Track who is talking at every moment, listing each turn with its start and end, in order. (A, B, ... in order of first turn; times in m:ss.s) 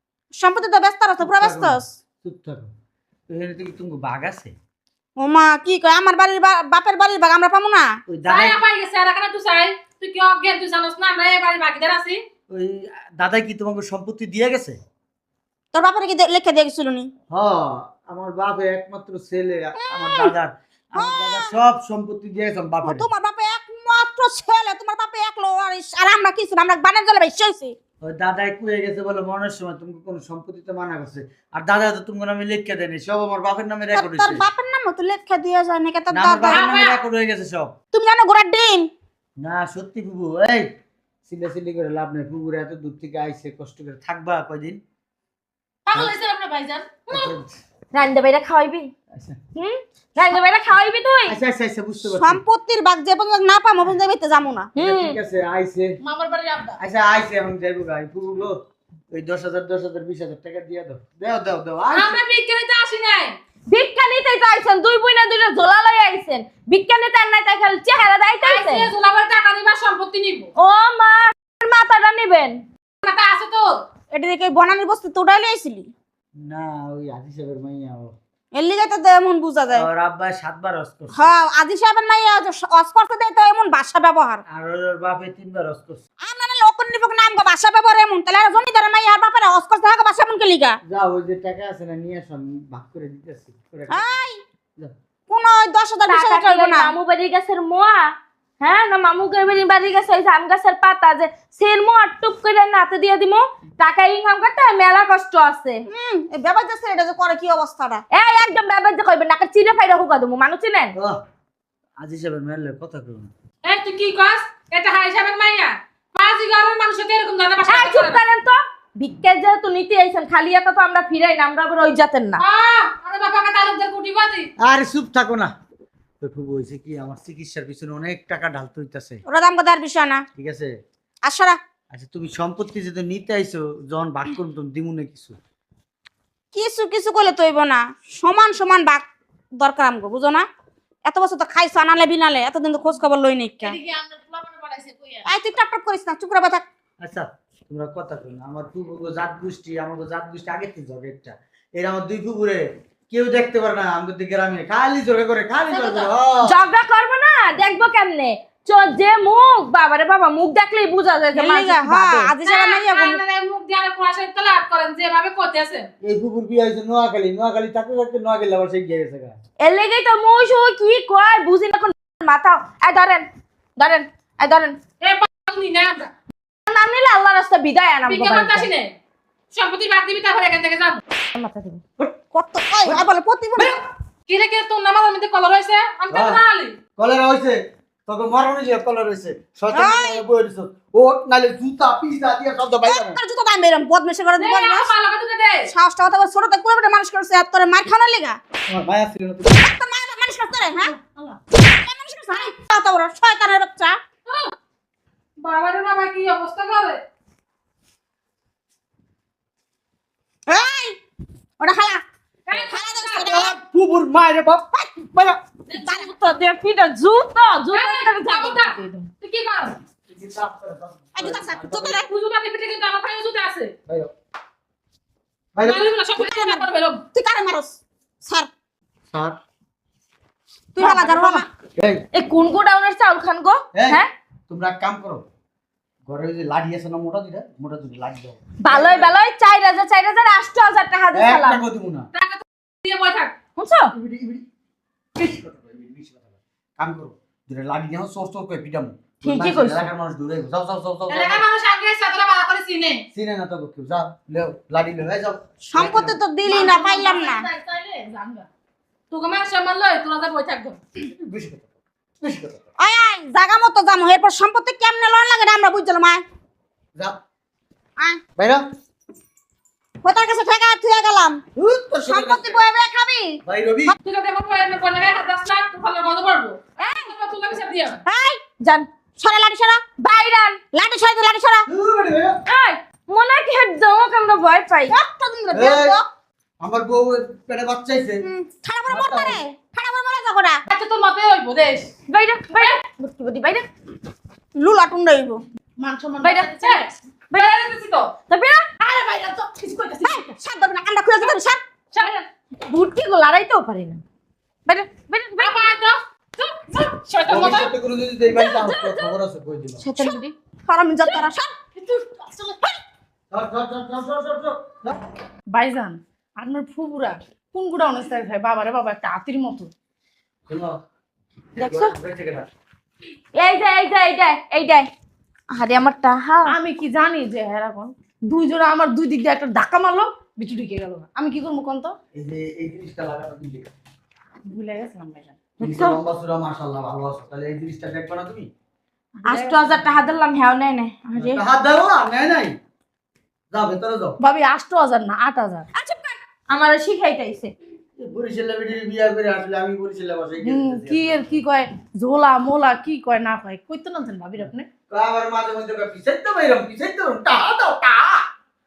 0:00.4-0:01.9 A
0:01.2-0:02.7 B
0:03.3-0:04.5 B
0:05.2-0:08.0 A
0:08.1-0:08.6 B
0:08.3-0:12.2 C
0:12.5-0:14.8 B
0:15.7-0:17.1 A
0:17.3-0:23.1 B
0:19.8-0:20.3 A
0:21.0-0:21.5 A
0:22.8-0:27.8 A
0:28.0-0:34.4 B
0:33.9-0:36.8 A
0:36.1-0:37.7 B
0:36.5-0:37.0 C
0:37.9-0:38.9 A
0:39.4-0:40.7 B
0:41.3-0:44.8 B
0:45.9-0:47.0 D
0:47.1-0:47.5 B
0:47.9-0:48.9 E
0:49.6-0:51.4 E
0:51.3-0:52.4 B
0:52.1-0:54.7 A
0:54.8-0:55.2 E
0:54.8-0:56.0 B
0:56.0-0:56.8 D
0:56.8-0:58.6 B
0:59.1-1:02.2 B
1:01.9-1:03.4 C
1:03.7-1:08.9 E
1:08.4-1:10.5 C
1:10.6-1:12.6 E
1:13.0-1:13.8 C
1:14.1-1:15.9 A
1:16.4-1:18.1 B
1:18.5-1:19.8 A
1:19.7-1:21.4 B
1:21.1-1:24.4 A
1:24.5-1:26.0 B
1:26.2-1:30.8 A
1:30.9-1:34.2 B
1:33.9-1:34.4 A
1:35.3-1:37.0 A
1:36.1-1:38.1 E
1:38.6-1:45.8 E
1:45.9-1:48.0 A
1:48.1-1:51.0 E
1:52.0-1:53.3 B
1:53.6-1:58.2 C
1:57.7-2:02.4 E
2:02.4-2:04.5 C
2:04.6-2:05.5 B
2:06.2-2:09.2 B
2:09.3-2:10.2 A
2:10.4-2:10.7 B
2:11.2-2:11.6 A
2:11.9-2:15.4 B
2:16.5-2:19.1 A
2:19.6-2:20.5 A
2:21.0-2:23.8 A
2:23.6-2:25.3 D
2:25.3-2:26.6 A
2:27.0-2:36.6 B
2:35.7-2:36.1 C
2:36.4-2:42.3 E
2:41.4-2:43.2 A
2:42.4-2:45.9 C
2:46.0-2:49.4 B
2:49.6-2:53.3 E
2:53.8-2:54.8 E
2:55.0-2:56.1 C
2:56.7-2:58.7 E
2:58.1-2:58.9 C
2:59.5-3:01.0 C
3:01.3-3:01.8 E
3:02.0-3:03.8 A
3:03.6-3:06.8 C
3:06.1-3:06.4 B
3:07.0-3:13.2 B
3:09.7-3:10.2 A
3:12.8-3:14.9 A
3:14.4-3:15.6 C
3:15.7-3:18.4 A
3:18.7-3:19.7 B
3:19.6-3:21.0 A
3:21.5-3:24.0 A
3:24.3-3:24.5 C
3:25.4-3:27.0 C
3:30.5-3:31.0 A
3:31.6-3:33.6 A
3:32.5-3:33.4 C
3:33.2-3:34.7 B
3:34.8-3:35.4 A
3:35.7-3:36.1 C
3:35.7-3:39.1 E
3:37.7-3:39.8 C
3:40.1-3:42.0 B
3:41.1-3:42.1 A
3:41.9-3:43.7 C
3:45.6-3:45.9 B
3:45.6-3:47.0 C
3:46.2-3:48.5 A
3:49.1-3:49.4 B
3:50.8-3:51.5 A
3:50.8-3:51.2 E
3:51.0-3:52.0 B
3:52.1-3:54.1 E
3:53.8-3:55.2 B
3:56.1-3:59.1 B
3:58.6-4:01.6 E
4:01.1-4:02.1 B
4:02.1-4:03.3 C
4:03.6-4:03.9 E
4:03.9-4:04.4 B
4:05.2-4:11.4 B
4:09.2-4:09.9 E
4:11.1-4:13.1 C
4:13.1-4:16.2 B
4:15.7-4:17.5 A
4:16.4-4:18.5 D
4:19.1-4:20.8 C
4:21.0-4:21.7 B
4:22.2-4:22.6 B
4:22.8-4:26.2 A
4:28.4-4:28.6 B
4:30.0-4:31.4 A
4:31.6-4:32.6 B
4:32.1-4:33.9 A
4:33.4-4:34.0 B
4:34.0-4:38.0 C
4:38.1-4:38.4 A
4:38.6-4:38.9 E
4:39.2-4:39.8 A
4:40.0-4:40.6 E
4:40.7-4:41.7 A
4:41.7-4:42.4 B
4:42.5-4:45.0 E
4:44.9-4:46.0 A
4:45.5-4:46.0 B
4:46.6-4:48.3 B
4:48.2-4:50.6 A
4:48.9-4:49.4 B
4:50.7-4:51.9 C
4:52.1-4:53.7 E
4:54.6-4:55.4 A
4:55.8-4:56.9 D
4:56.2-4:56.8 E
4:56.7-4:58.1 C
4:57.3-4:57.7 E
4:58.3-4:58.6 E
4:58.8-5:00.3 D
5:00.0-5:01.6 A
5:01.9-5:02.3 C
5:02.6-5:04.0 E
5:04.7-5:05.5 E
5:05.4-5:07.7 C
5:07.1-5:07.6 E
5:07.3-5:09.8 B
5:08.3-5:09.1 E
5:09.9-5:10.3 E
5:10.0-5:11.5 A
5:11.8-5:12.6 D
5:13.3-5:15.0 B
5:15.5-5:19.7 D
5:20.5-5:20.8 B
5:21.6-5:22.5 B
5:21.6-5:22.0 E
5:23.4-5:24.9 E
5:25.5-5:26.6 E
5:26.5-5:32.0 D
5:32.1-5:33.7 B
5:34.5-5:35.4 D
5:35.6-5:38.5 B
5:35.6-5:36.0 E
5:39.2-5:41.4 E
5:39.3-5:39.7 D
5:41.2-5:42.6 B
5:43.5-5:44.2 B
5:44.2-5:45.7 D
5:45.7-5:47.5 E
5:48.0-5:51.3 B
5:50.4-5:54.7 D
5:54.9-5:58.2 B